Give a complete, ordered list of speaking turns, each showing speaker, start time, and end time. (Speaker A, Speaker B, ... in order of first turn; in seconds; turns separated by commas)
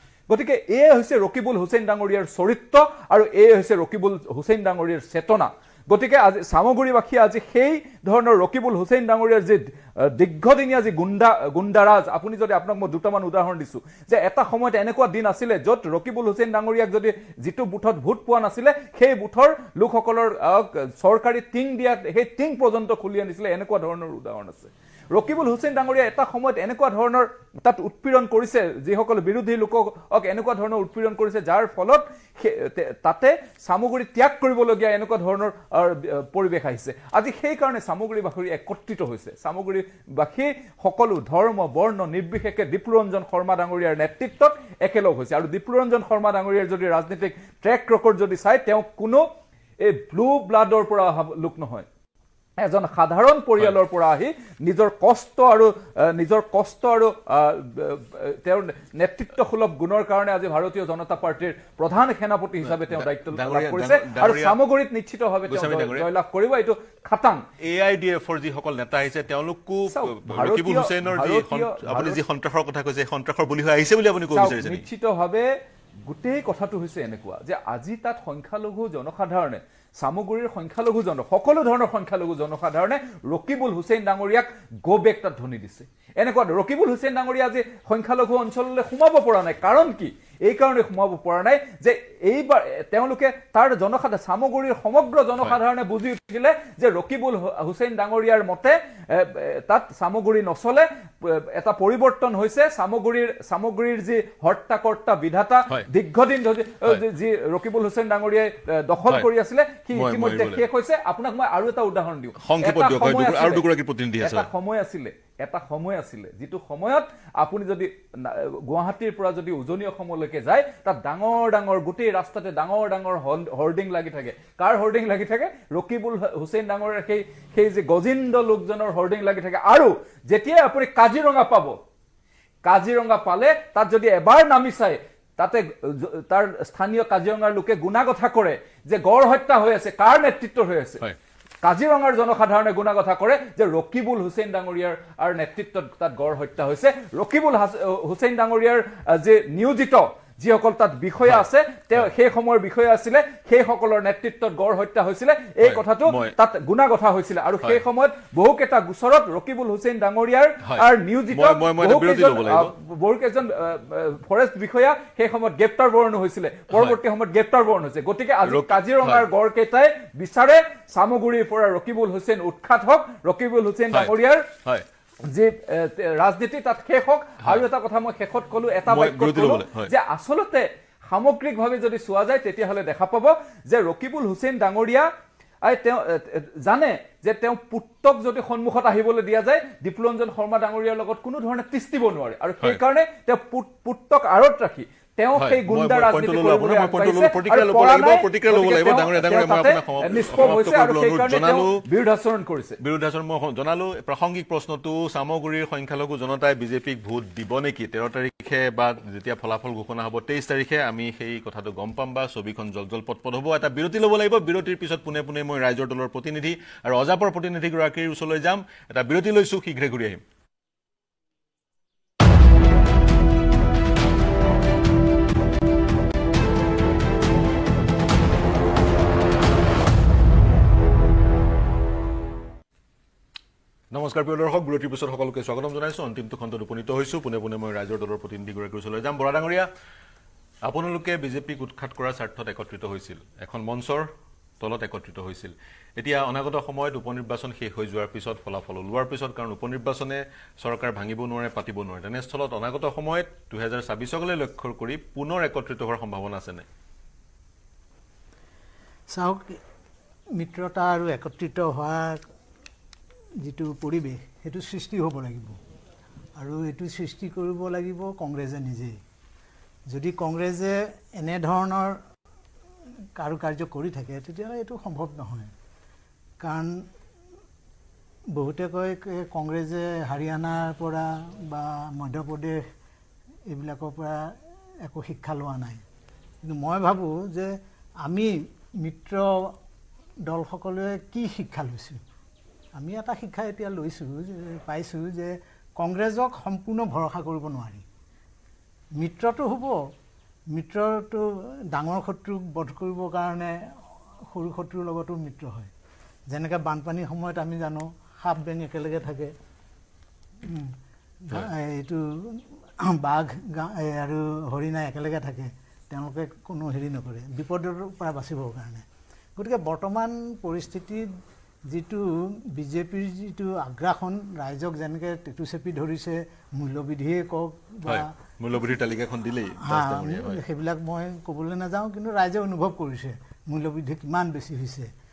Speaker A: 0.3-49.2, Speaker A: 49.8-51.9, Speaker A: 52.6-67.4, Speaker B: 62.6-64.6, Speaker B: 65.5-66.1, Speaker B: 67.6-74.8, Speaker A: 69.9-72.2, Speaker A: 74.3-75.5, Speaker A: 76.0-113.6, Speaker B: 109.9-110.6, Speaker B: 112.4-114.5, Speaker A: 114.2-131.8, Speaker A: 132.6-141.0, Speaker A: 141.6-174.5, Speaker B: 151.2-152.1, Speaker B: 155.6-156.3, Speaker B: 160.6-162.7, Speaker B: 166.7-167.0, Speaker B: 168.4-169.3, Speaker B: 173.9-174.8, Speaker A: 175.3-185.1, Speaker B: 178.9-179.9, Speaker A: 185.7-202.8, Speaker B: 195.4-201.8, Speaker B: 202.8-220.2, Speaker B: 233.9-239.7, Speaker B: 240.6-256.6, Speaker C: 259.1-259.6, Speaker C: 260.4-262.2, Speaker C: 263.4-265.6, Speaker C: 266.4-269.0, Speaker C: 269.9-272.0, Speaker C: 273.1-275.5, Speaker C: 276.4-276.8, Speaker C: 278.3-282.6, Speaker C: 283.5-285.8, Speaker C: 286.4-289.5, Speaker C: 290.2-292.0, Speaker C: 292.8-297.8, Speaker C: 299.0-299.8, Speaker C: 300.5-303.7, Speaker C: 304.3-305.7, Speaker C: 306.3-309.3, Speaker C: 310.5-310.8, Speaker C: 311.3-318.8, Speaker C: 319.4-321.1, Speaker C: 321.7-328.1, Speaker B: 327.9-330.4, Speaker C: 329.6-334.9